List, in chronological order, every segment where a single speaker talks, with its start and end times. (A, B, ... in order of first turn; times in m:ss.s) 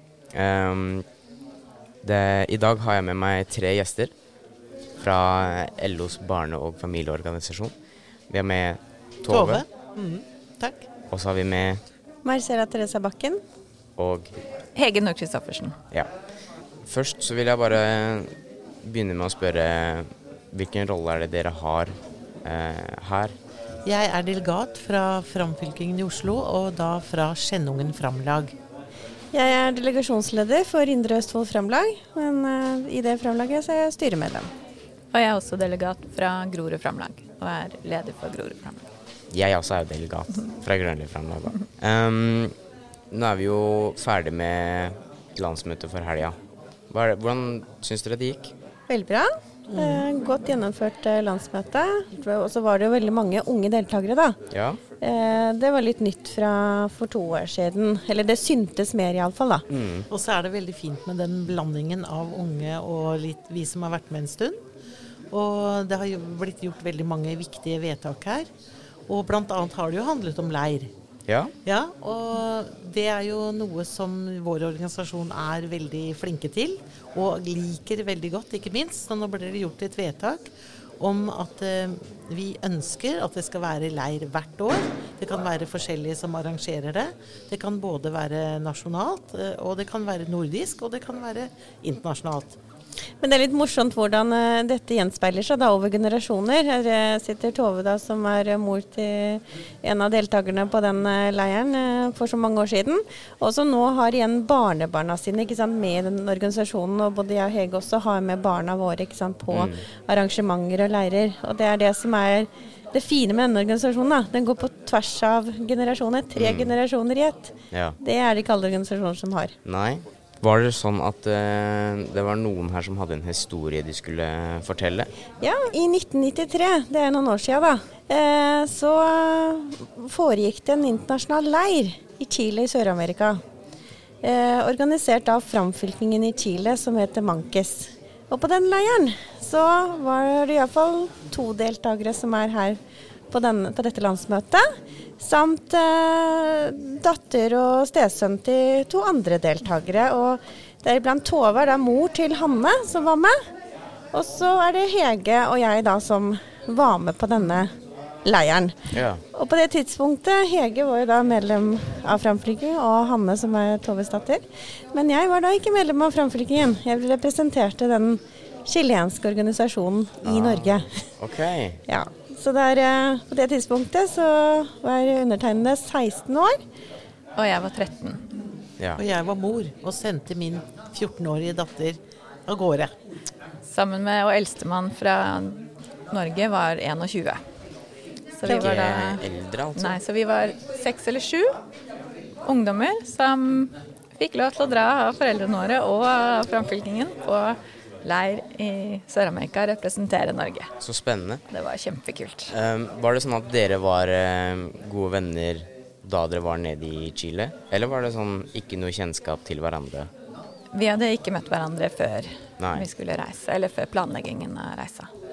0:00.3-0:01.0 A
0:02.0-0:04.1 A
0:05.0-0:07.7 A
0:08.3-0:09.6 A
0:09.3-0:10.8 B
0:11.1-0:11.8 A
0:12.2-0:13.4 C
0:14.0-0:14.3 A
0:14.8-0:15.8 D
0:16.8-0:18.3 A
0:18.8-0:21.9 A
0:22.4-0:23.3 A
0:23.8-0:28.5 B
0:29.3-0:34.5 C
0:35.1-0:38.8 D
0:39.3-0:42.5 A
0:43.1-0:46.4 A
0:46.9-0:48.5 A
0:48.9-0:54.4 C
0:49.7-0:50.0 B
0:54.5-0:54.8 A
0:55.0-0:59.6 C
0:59.7-1:00.1 A
1:00.1-1:04.6 B
1:05.3-1:08.5 B
1:09.1-1:10.9 B
1:11.6-1:20.5 B
1:21.0-1:32.6 B
1:33.2-1:59.5 C
1:49.5-1:49.8 A
1:56.4-1:56.7 A
1:59.6-2:05.1 A
2:05.4-2:13.4 C
2:14.2-2:22.8 C
2:23.3-2:24.6 C
2:25.2-2:33.3 C
2:34.1-2:37.7 C
2:38.2-2:51.1 C
2:38.9-2:39.2 A
2:50.3-2:50.6 A
2:51.2-2:51.8 A
2:51.9-2:56.6 C
2:57.4-2:58.2 D
2:59.0-3:02.9 B
3:03.7-3:07.4 D
3:08.4-3:11.5 D
3:08.4-3:10.0 A
3:12.4-3:20.7 D
3:20.8-3:21.4 A
3:21.5-3:22.5 D
3:22.5-3:30.1 A
3:30.7-3:35.1 D
3:32.6-3:32.9 A